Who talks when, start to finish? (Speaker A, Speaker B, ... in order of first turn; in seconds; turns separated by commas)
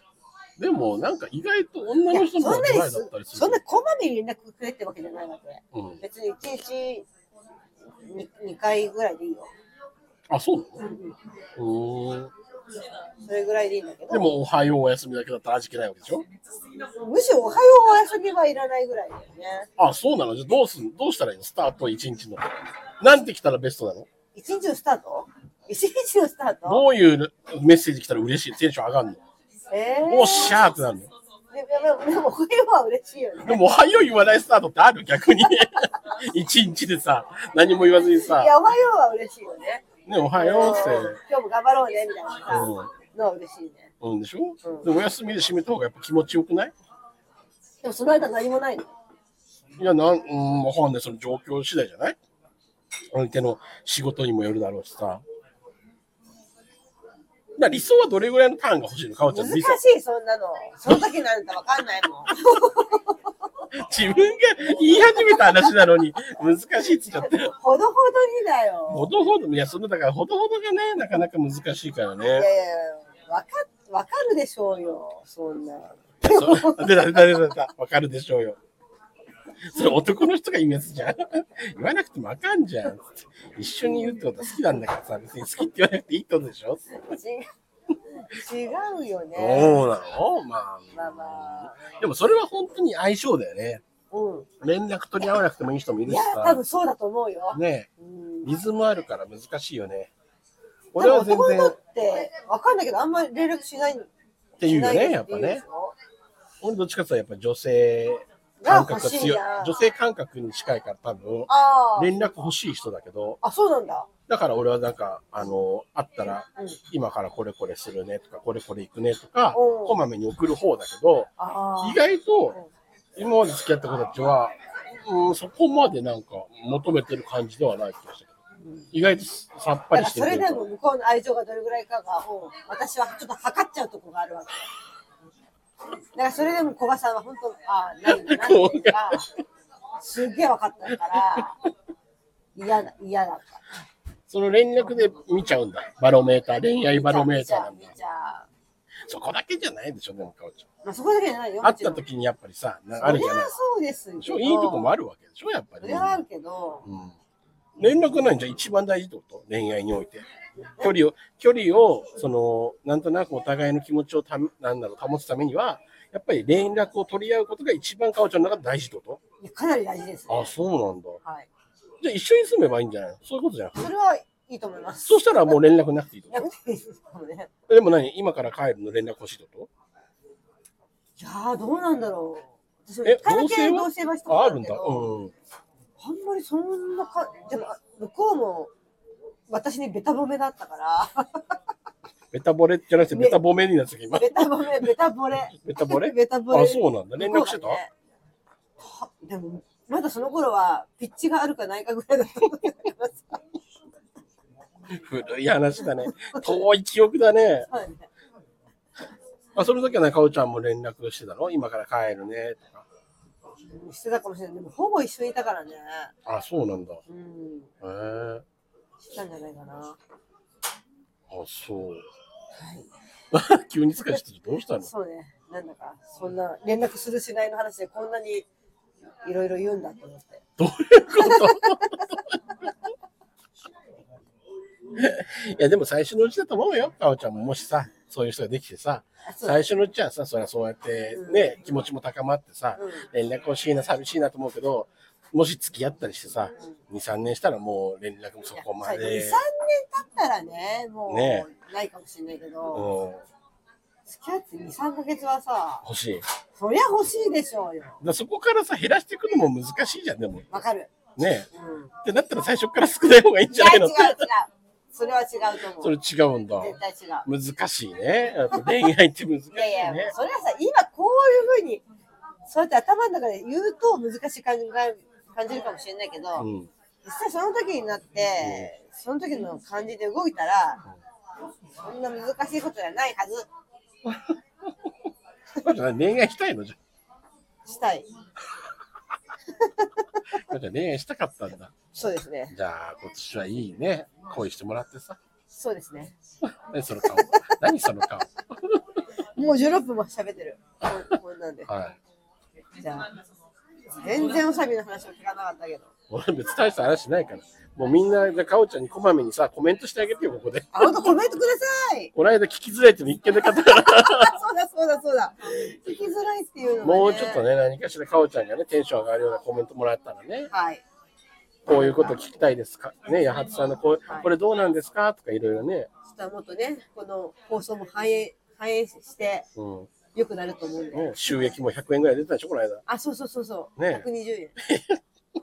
Speaker A: 0.6-3.6, Speaker B: 2.1-7.0, Speaker A: 5.7-6.0, Speaker B: 8.1-9.5, Speaker A: 10.3-10.8, Speaker B: 10.8-11.1, Speaker A: 11.6-12.3, Speaker B: 13.2-14.3, Speaker A: 14.1-16.2, Speaker B: 17.0-19.7, Speaker A: 19.8-22.4, Speaker A: 23.0-24.1, Speaker B: 24.3-26.8, Speaker A: 26.6-29.2, Speaker B: 29.7-30.7, Speaker A: 30.1-31.1, Speaker B: 31.5-33.9, Speaker A: 33.4-38.5, Speaker B: 38.2-43.9, Speaker A: 40.0-41.2, Speaker A: 42.5-42.9, Speaker A: 44.0-46.7, Speaker B: 44.6-44.9, Speaker B: 47.8-48.9, Speaker A: 49.8-52.2, Speaker A: 53.1-55.2, Speaker A: 57.6-59.8, Speaker B: 59.3-63.1, Speaker A: 63.8-67.5, Speaker B: 65.2-65.7, Speaker B: 67.1-69.1, Speaker A: 68.9-72.5, Speaker B: 72.3-77.3, Speaker A: 76.2-78.6, Speaker A: 79.7-86.9, Speaker B: 87.0-87.5, Speaker B: 88.2-89.8, Speaker A: 89.3-93.8, Speaker B: 90.9-91.8, Speaker B: 94.1-94.5, Speaker A: 94.6-96.6, Speaker B: 96.1-98.5, Speaker A: 97.5-97.9, Speaker A: 98.4-100.1, Speaker A: 100.9-101.8, Speaker B: 100.9-104.1, Speaker A: 104.6-105.6, Speaker B: 104.6-105.9, Speaker A: 106.6-113.4, Speaker B: 108.6-109.8, Speaker B: 111.5-112.1, Speaker B: 113.4-114.1, Speaker A: 114.3-121.3, Speaker B: 119.5-120.0, Speaker B: 121.4-122.0, Speaker A: 121.8-122.6, Speaker A: 123.2-128.3, Speaker A: 128.9-130.6, Speaker B: 129.9-134.6, Speaker B: 136.1-139.2, Speaker A: 138.1-139.3, Speaker B: 140.0-141.5, Speaker B: 142.6-143.7, Speaker A: 144.3-147.9, Speaker B: 146.9-148.5, Speaker A: 149.1-150.6, Speaker B: 150.8-152.0, Speaker A: 151.6-153.5, Speaker B: 153.0-154.9, Speaker A: 154.2-156.2, Speaker B: 155.8-156.8, Speaker A: 156.8-157.2, Speaker A: 157.8-160.2, Speaker A: 160.8-169.2, Speaker B: 169.4-170.5, Speaker A: 170.3-171.2, Speaker B: 171.2-171.5, Speaker A: 172.0-173.9, Speaker B: 173.8-175.6, Speaker A: 175.1-176.5, Speaker B: 176.3-177.5, Speaker A: 177.7-179.7, Speaker B: 181.2-185.1, Speaker A: 183.0-185.3, Speaker B: 186.0-188.7, Speaker B: 189.5-191.5, Speaker A: 192.3-194.8, Speaker B: 193.1-193.4, Speaker B: 194.1-197.9, Speaker A: 195.6-197.8, Speaker B: 198.8-203.4, Speaker A: 204.9-207.7, Speaker B: 206.1-206.6, Speaker B: 207.7-208.1, Speaker A: 209.5-212.8, Speaker B: 213.7-216.1, Speaker A: 216.2-217.0, Speaker B: 217.1-217.7, Speaker A: 217.8-218.4, Speaker B: 219.1-220.0, Speaker A: 221.3-222.0, Speaker B: 222.6-222.9, Speaker A: 223.3-224.9, Speaker B: 224.8-228.5, Speaker B: 229.2-230.4, Speaker A: 230.6-232.4, Speaker B: 231.2-232.0, Speaker A: 234.9-249.4, Speaker B: 239.3-239.6, Speaker B: 241.1-241.7, Speaker B: 242.8-243.1, Speaker B: 248.7-252.9, Speaker A: 251.1-251.5, Speaker A: 252.7-253.2, Speaker B: 254.1-255.8, Speaker A: 255.8-256.2, Speaker B: 256.6-258.0, Speaker A: 258.0-260.6, Speaker B: 260.5-260.9, Speaker A: 261.2-261.5, Speaker B: 261.5-261.9, Speaker A: 262.0-264.2, Speaker B: 263.5-265.9, Speaker A: 265.8-266.8, Speaker B: 266.6-267.3, Speaker A: 267.3-270.1, Speaker B: 269.5-271.8, Speaker B: 272.5-276.5, Speaker A: 276.4-276.7, Speaker B: 277.0-280.8, Speaker A: 278.4-278.7, Speaker B: 281.8-283.5, Speaker A: 285.6-286.8, Speaker B: 287.6-288.1, Speaker B: 289.6-289.9, Speaker A: 290.5-291.7, Speaker B: 291.9-292.5, Speaker A: 292.5-295.2, Speaker B: 295.5-296.1, Speaker A: 296.7-298.8, Speaker B: 299.4-301.7, Speaker A: 301.7-302.0, Speaker B: 302.8-303.1, Speaker B: 304.0-305.9, Speaker A: 306.1-311.2, Speaker B: 310.7-312.1, Speaker A: 312.1-314.4, Speaker B: 313.5-317.4, Speaker A: 316.8-320.5, Speaker B: 320.5-320.8, Speaker A: 321.6-325.9, Speaker B: 326.1-329.5, Speaker A: 329.6-329.9, Speaker B: 330.1-331.1, Speaker A: 330.9-332.8, Speaker B: 332.9-334.5, Speaker A: 333.8-334.1, Speaker A: 334.6-335.0